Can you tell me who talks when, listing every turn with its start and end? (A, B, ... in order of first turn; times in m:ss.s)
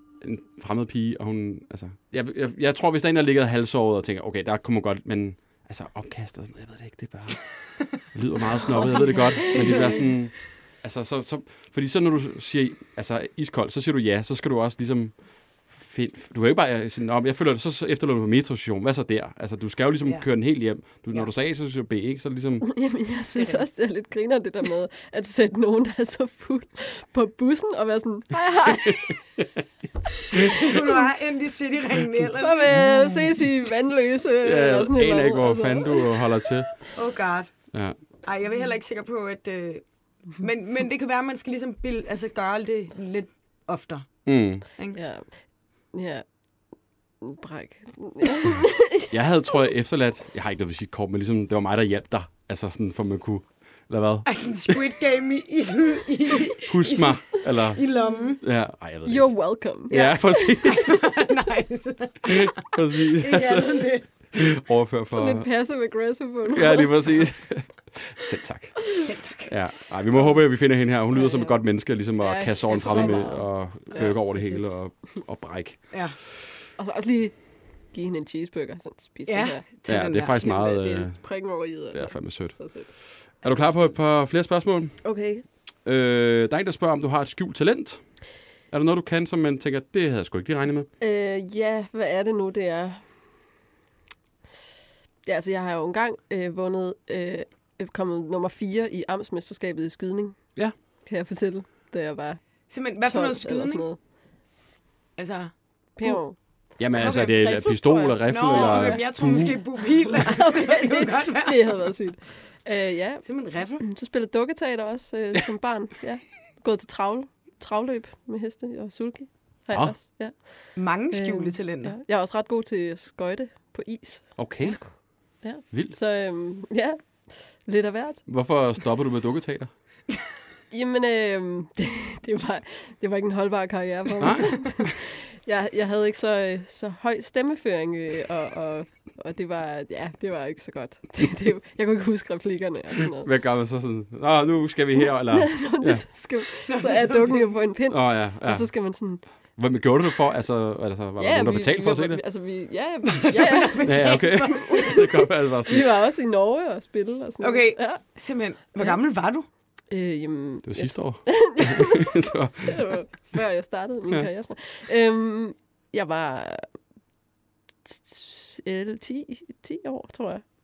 0:00.2-0:22.7 A
0:09.1-0:10.0 B
0:20.0-0:20.3 B
0:22.6-0:29.2 C
0:23.4-0:23.6 B
0:28.8-0:29.4 A
0:30.3-0:33.0 B
0:32.4-0:36.1 C
0:34.4-0:36.8 A
0:36.9-0:37.5 B
0:37.7-0:38.0 A
0:38.2-0:45.0 B
0:44.2-0:44.7 A
0:44.9-0:45.3 C
0:45.9-0:46.2 C
0:47.2-0:49.1 C
0:49.1-0:54.8 A
0:54.2-0:58.4 B
0:56.6-0:57.8 A
0:58.4-1:01.0 A
0:59.0-1:01.0 C
1:00.6-1:04.1 B
1:02.2-1:05.5 A
1:05.1-1:07.3 C
1:06.5-1:08.9 A
1:09.0-1:09.6 B
1:09.4-1:16.1 A
1:11.1-1:11.5 C
1:12.2-1:14.6 C
1:12.7-1:13.2 B
1:15.9-1:16.2 B
1:16.8-1:17.4 C
1:17.9-1:22.9 C
1:19.3-1:20.5 B
1:19.9-1:21.4 A
1:21.9-1:25.0 A
1:25.0-1:25.4 C
1:25.8-1:28.0 A
1:28.7-1:30.9 A
1:31.0-1:33.0 C
1:35.2-1:40.4 C
1:41.0-1:42.4 C
1:42.7-1:43.8 B
1:43.0-1:44.0 C
1:45.2-1:45.5 B
1:46.0-1:49.4 C
1:46.8-1:49.6 A
1:47.0-1:47.6 B
1:48.2-1:51.8 B
1:50.0-2:04.9 C
1:53.2-1:53.8 B
2:00.8-2:02.0 B
2:04.4-2:04.8 A
2:05.4-2:08.2 C
2:08.2-2:09.7 A
2:10.7-2:23.3 C
2:14.2-2:14.9 A
2:23.2-2:26.0 A
2:25.3-2:29.2 C
2:26.7-2:27.5 B
2:27.9-2:28.7 A
2:29.6-2:32.2 A
2:31.2-2:38.0 C
2:33.1-2:35.0 B
2:33.8-2:35.9 A
2:37.4-2:39.4 B
2:39.9-2:42.1 C
2:40.6-2:43.0 A
2:42.6-2:46.7 C
2:47.8-2:50.4 C